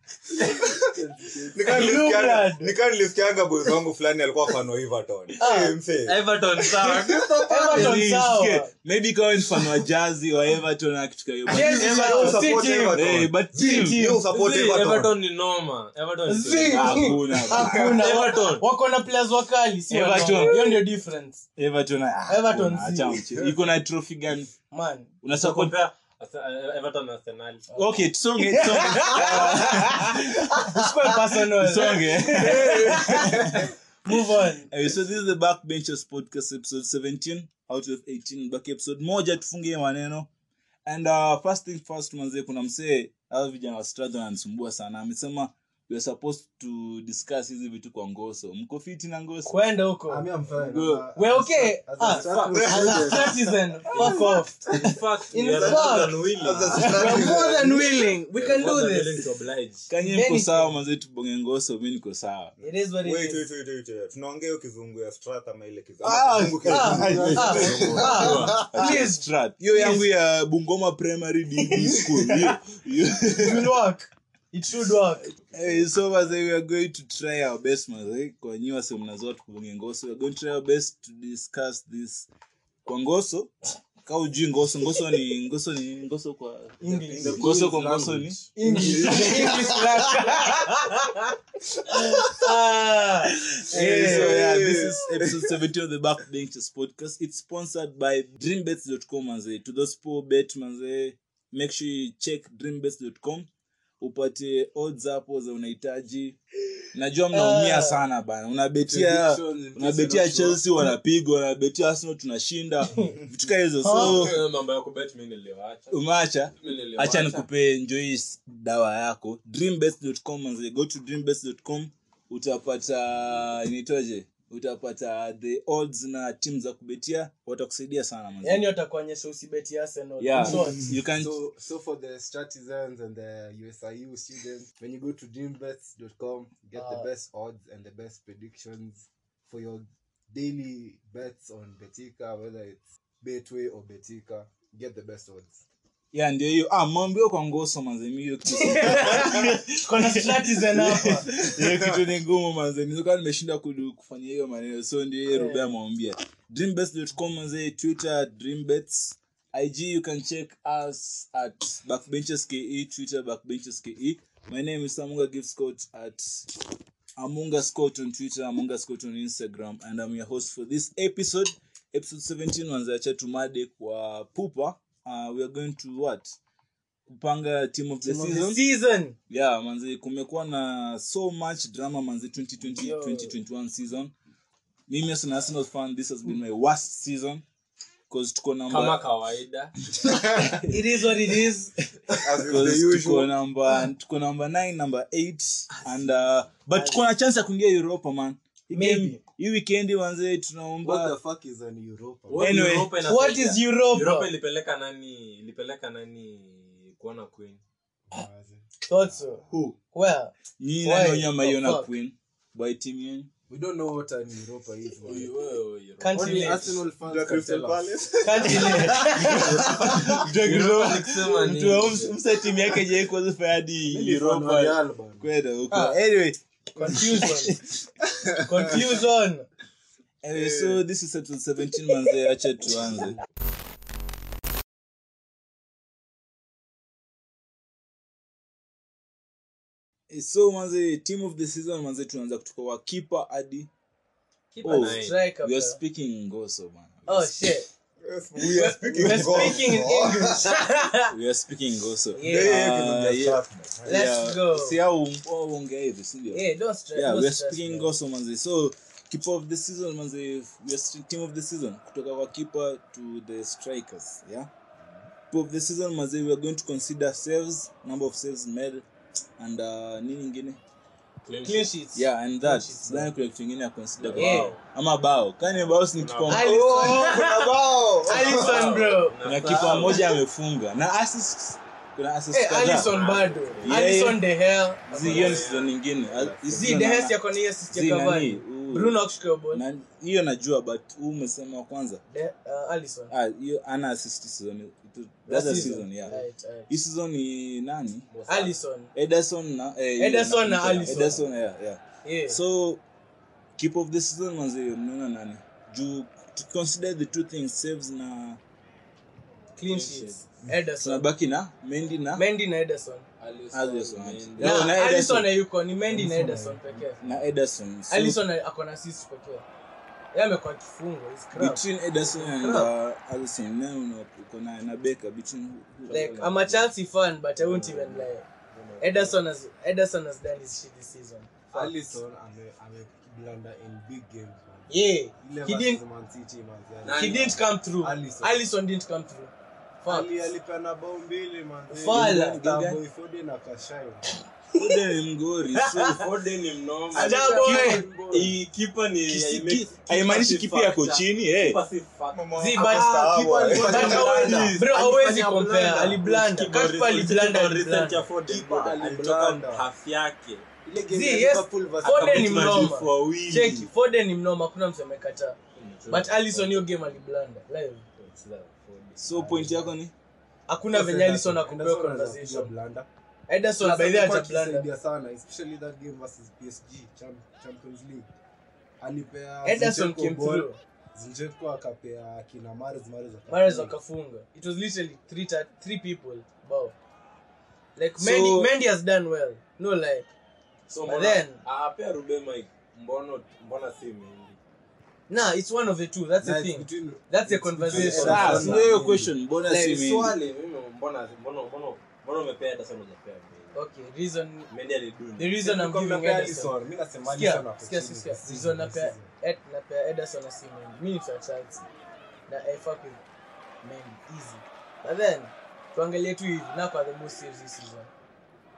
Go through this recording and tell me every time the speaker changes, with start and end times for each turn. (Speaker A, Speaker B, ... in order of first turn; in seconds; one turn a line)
Speaker A: 0.5-0.9
Speaker B: 0.9-1.9
Speaker A: 1.5-8.0
Speaker C: 1.6-2.8
Speaker C: 5.4-5.8
Speaker D: 6.0-7.5
Speaker C: 7.4-8.7
Speaker E: 7.7-14.0
Speaker C: 11.5-14.2
Speaker A: 11.5-15.1
Speaker D: 14.3-17.2
Speaker C: 16.2-21.4
Speaker E: 16.6-17.9
Speaker A: 17.7-18.0
Speaker D: 18.0-18.6
Speaker E: 19.9-20.8
Speaker E: 21.6-24.5
Speaker C: 22.3-23.2
Speaker C: 24.7-25.1
Speaker E: 25.2-25.8
Speaker D: 25.3-27.8
Speaker E: 27.7-40.3
Speaker C: 28.4-34.7
Speaker B: 32.4-33.5
Speaker E: 40.9-49.5
Speaker C: 49.5-50.3
Speaker B: 50.1-53.4
Speaker E: 50.5-51.0
Speaker C: 51.1-54.7
Speaker D: 52.1-53.0
Speaker A: 52.6-53.3
Speaker D: 53.9-56.9
Speaker C: 55.3-56.2
Speaker A: 55.4-58.0
Speaker C: 56.7-59.2
Speaker B: 56.7-57.8
Speaker D: 58.3-59.9
Speaker E: 59.9-62.5
Speaker C: 60.0-60.8
Speaker A: 62.6-68.6
Speaker C: 62.6-63.5
Speaker E: 66.0-73.7
Speaker B: 66.6-68.6
Speaker C: 66.7-70.0
Speaker D: 67.9-68.7
Speaker C: 73.3-75.3
Speaker D: 75.4-75.9
Speaker E: 75.5-82.3
Speaker E: 82.8-83.5
Speaker E: 84.0-89.5
Speaker C: 86.8-87.5
Speaker B: 86.9-89.7
Speaker C: 88.5-91.3
Speaker A: 89.2-89.7
Speaker C: 91.9-94.4
Speaker E: 93.2-103.5
Speaker B: 93.7-94.9
Speaker E: 104.0-106.4
Speaker E: 106.9-114.4
Speaker C: 107.3-108.0
Speaker B: 108.8-110.9
Speaker C: 112.9-113.2
Speaker C: 113.8-114.3
Speaker D: 113.9-116.0
Speaker E: 115.9-128.7
Speaker D: 116.6-117.5
Speaker C: 128.4-130.9
Speaker E: 130.2-131.4
Speaker B: 131.1-145.6
Speaker C: 136.7-137.1
Speaker E: 146.1-166.6
Speaker C: 148.5-151.3
Speaker C: 155.3-155.7
Speaker E: 167.2-176.4
Speaker E: 177.1-178.6
Speaker C: 178.0-179.2
Speaker E: 179.3-184.1
Speaker C: 182.6-183.4
Speaker E: 184.9-187.4
Speaker E: 188.1-189.0
Speaker D: 188.7-189.7
Speaker E: 190.5-190.8
Speaker C: 190.7-191.7
Speaker A: 192.1-193.3
Speaker E: 192.3-201.2
Speaker D: 195.7-196.5
Speaker C: 196.7-197.0
Speaker C: 198.7-199.2
Speaker B: 200.8-202.6
Speaker D: 202.3-207.6
Speaker E: 202.4-202.9
Speaker C: 203.0-204.3
Speaker B: 208.1-209.2
Speaker C: 208.9-210.3
Speaker D: 209.5-209.8
Speaker E: 210.6-213.3
Speaker C: 210.8-211.9
Speaker B: 213.5-215.3
Speaker D: 215.0-216.8
Speaker C: 216.0-216.7
Speaker B: 216.1-219.9
Speaker A: 217.0-219.2
Speaker C: 218.2-219.5
Speaker E: 218.5-227.7
Speaker D: 219.9-222.2
Speaker B: 223.9-225.3
Speaker C: 225.7-226.0
Speaker C: 226.8-227.6
Speaker C: 228.4-229.5
Speaker E: 230.2-233.2
Speaker B: 230.4-230.8
Speaker E: 240.1-243.7
Speaker C: 244.5-245.8
Speaker D: 244.6-245.2
Speaker E: 244.6-247.5
Speaker C: 247.1-247.7
Speaker A: 248.0-250.5
Speaker C: 248.3-251.1
Speaker E: 249.0-249.5
Speaker E: 251.1-264.5
Speaker C: 252.1-252.6
Speaker A: 252.2-254.0
Speaker C: 253.8-254.8
Speaker C: 256.3-257.9
Speaker E: 265.3-268.8
Speaker E: 269.4-270.6
Speaker D: 271.2-271.7
Speaker C: 271.4-273.1
Speaker E: 271.9-276.6
Speaker D: 274.0-274.6
Speaker C: 274.1-274.5
Speaker D: 275.4-276.5
Speaker C: 276.3-279.8
Speaker A: 276.4-278.8
Speaker D: 278.1-280.1
Speaker E: 279.2-282.9
Speaker C: 282.3-285.4
Speaker D: 282.7-283.9
Speaker E: 283.6-284.2
Speaker D: 284.9-286.8
Speaker E: 284.9-287.2
Speaker C: 286.6-289.6
Speaker E: 287.7-289.0
Speaker E: 289.5-292.0
Speaker C: 292.1-293.1
Speaker E: 293.1-298.1
Speaker C: 295.2-296.7
Speaker D: 298.1-298.6
Speaker C: 298.3-298.9
Speaker E: 298.9-302.8
Speaker C: 300.0-301.2
Speaker C: 302.0-302.4
Speaker E: 303.6-308.4
Speaker C: 309.6-311.1
Speaker D: 309.7-310.2
Speaker E: 310.8-312.2
Speaker C: 312.1-313.1
Speaker D: 313.2-314.7
Speaker E: 313.5-315.3
Speaker C: 314.4-317.0
Speaker B: 315.9-317.1
Speaker E: 317.0-318.2
Speaker C: 317.9-319.4
Speaker C: 320.1-322.7
Speaker E: 321.3-326.7
Speaker C: 325.9-328.2
Speaker D: 327.5-329.2
Speaker C: 328.8-331.9
Speaker B: 331.5-338.4
Speaker C: 334.7-335.8
Speaker D: 336.8-337.4
Speaker C: 336.9-340.1
Speaker B: 339.8-344.1
Speaker C: 341.7-342.4
Speaker E: 341.8-342.8
Speaker E: 344.5-346.0
Speaker C: 345.6-346.0
Speaker D: 345.9-347.3
Speaker C: 346.9-347.8
Speaker B: 346.9-348.4
Speaker E: 347.4-347.9
Speaker D: 348.1-352.7
Speaker E: 349.1-351.6
Speaker A: 352.1-354.2
Speaker C: 352.4-352.9
Speaker B: 352.6-356.2
Speaker D: 353.5-355.0
Speaker C: 353.6-358.1
Speaker D: 356.0-360.4
Speaker B: 358.3-359.6
Speaker B: 360.6-362.6
Speaker C: 360.9-365.4
Speaker D: 361.8-363.7
Speaker D: 365.6-367.0
Speaker C: 365.9-367.8
Speaker D: 368.0-369.0
Speaker E: 369.0-369.9
Speaker B: 369.1-369.7
Speaker C: 370.5-372.5
Speaker B: 370.7-372.9
Speaker C: 373.3-374.7
Speaker B: 373.6-378.1
Speaker B: 378.8-383.7
Speaker C: 379.4-380.6
Speaker C: 383.3-386.7
Speaker C: 387.8-390.1
Speaker E: 388.0-388.5
Speaker D: 390.7-394.4
Speaker C: 390.9-391.4
Speaker C: 395.1-398.7
Speaker B: 396.2-399.1
Speaker E: 397.7-400.1
Speaker D: 397.7-398.6
Speaker C: 399.4-399.9
Speaker D: 399.6-403.6
Speaker C: 403.5-404.5
Speaker D: 404.5-405.3
Speaker C: 405.2-406.5
Speaker B: 405.4-409.1
Speaker C: 407.1-411.6
Speaker C: 412.3-413.0
Speaker C: 413.6-417.9